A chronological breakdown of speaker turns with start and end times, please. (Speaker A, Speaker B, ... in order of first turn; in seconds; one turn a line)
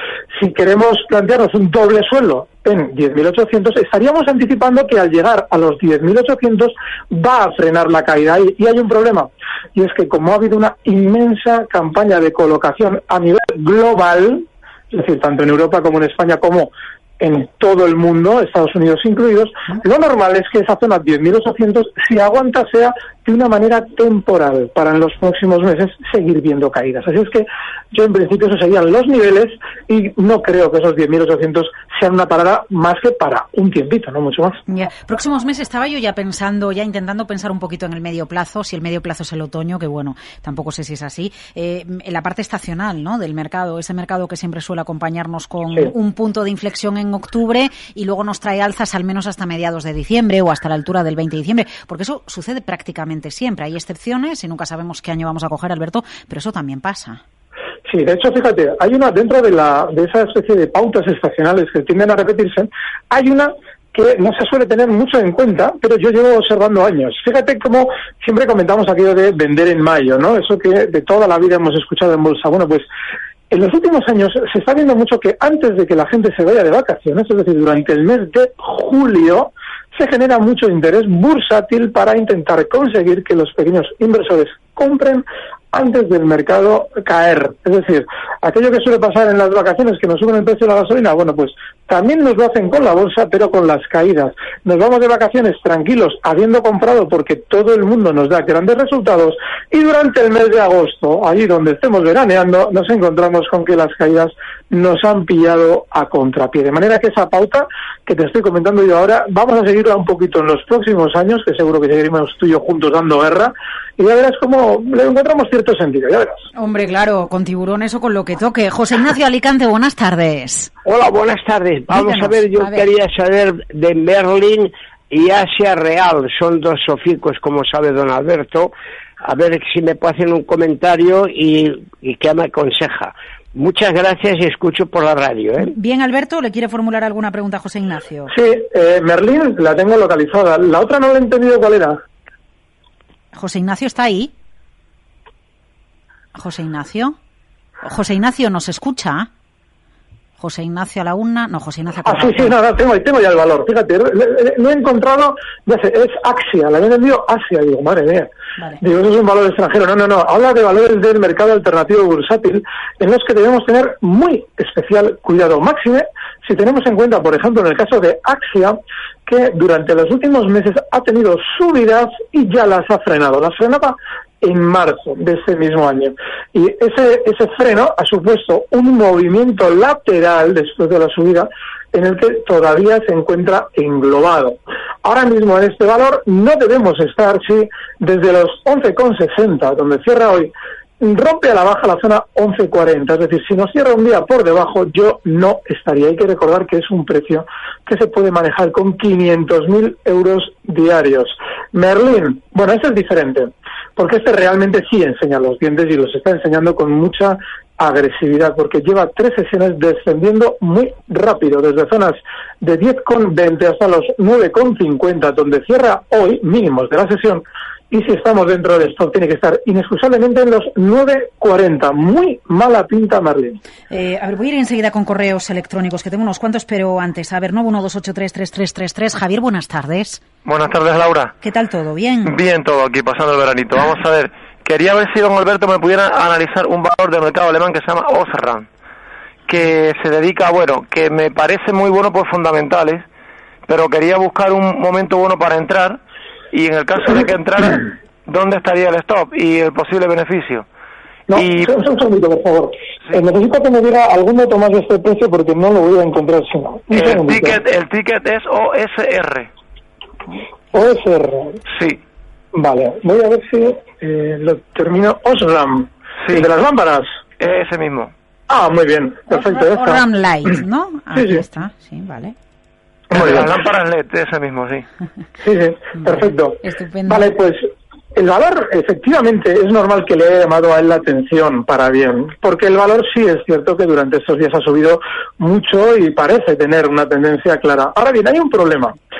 Speaker A: 0.3-34.6
Speaker B: 34.7-57.2
Speaker A: 57.9-72.9
Speaker A: 73.5-116.4
Speaker B: 116.5-120.7
Speaker C: 120.8-128.7
Speaker B: 121.9-122.8
Speaker C: 129.2-135.7
Speaker B: 135.6-138.3
Speaker A: 138.3-142.0
Speaker B: 143.3-144.3
Speaker B: 146.3-147.2
Speaker B: 147.8-149.3
Speaker B: 150.4-152.6
Speaker A: 152.1-158.3
Speaker A: 158.8-223.6
Speaker B: 223.9-230.2
Speaker D: 230.4-231.3
Speaker B: 231.4-232.3
Speaker D: 232.2-238.7
Speaker D: 239.4-243.1
Speaker D: 243.7-246.0
Speaker D: 246.5-250.7
Speaker A: 251.3-257.6
Speaker D: 251.3-251.7
Speaker D: 256.9-259.5
Speaker A: 260.7-261.6
Speaker D: 261.7-262.0
Speaker A: 262.5-267.1
Speaker D: 267.4-268.1
Speaker A: 268.5-270.0
Speaker B: 269.3-272.3
Speaker A: 271.1-271.4
Speaker D: 273.1-274.9
Speaker A: 273.1-273.5
Speaker A: 275.4-289.0
Speaker B: 276.0-277.3